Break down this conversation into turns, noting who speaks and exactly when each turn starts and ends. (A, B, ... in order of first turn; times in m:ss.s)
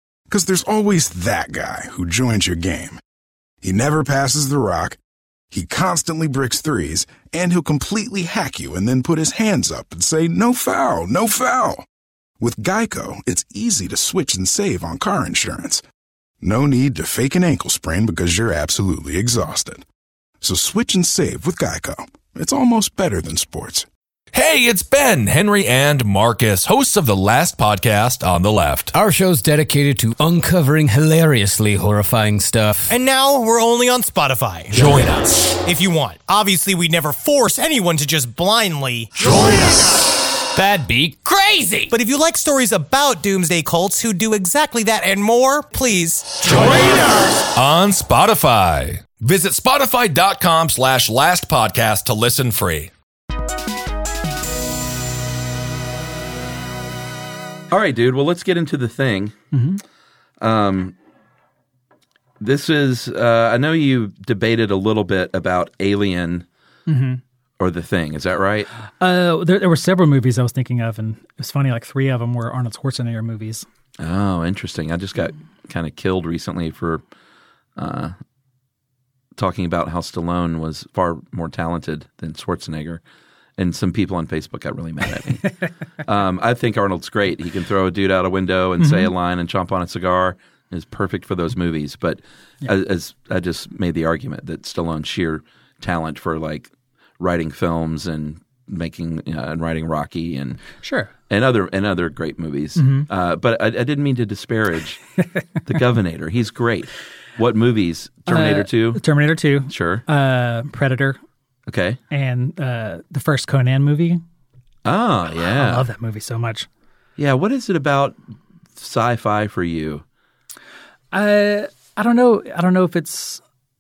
0:00.3-0:03.0 A
0:03.6-0:05.0 A
0:05.5-0:11.8 A
0:12.4-0:15.8 A
0:16.4-0:19.8 A
0:20.4-0:23.9 A
0:24.3-0:28.9 B
0:28.9-0:32.9 C
0:32.9-0:40.0 D
0:34.8-0:35.3 B
0:40.6-0:41.2 C
0:41.2-0:47.3 D
0:46.5-0:52.9 B
0:57.7-0:59.4 E
0:59.5-0:59.8 F
1:00.4-1:00.9 E
1:02.4-1:06.4 E
1:06.9-1:07.2 F
1:07.6-1:08.7 E
1:09.0-1:13.7 F
1:14.0-1:17.0 E
1:17.8-1:18.1 E
1:19.4-1:23.0 E
1:23.6-1:40.6 E
1:28.8-1:29.1 F
1:40.8-1:41.1 F
1:41.3-1:45.0 E
1:42.8-1:43.1 F
1:45.7-1:49.0 E
1:48.3-1:51.2 F
1:49.7-1:50.0 E
1:51.7-1:52.0 E
1:52.1-1:54.2 F
1:54.8-1:55.8 E
1:55.3-1:56.7 F
1:57.2-1:58.2 E
1:58.8-2:00.0 E
2:01.1-2:03.4 F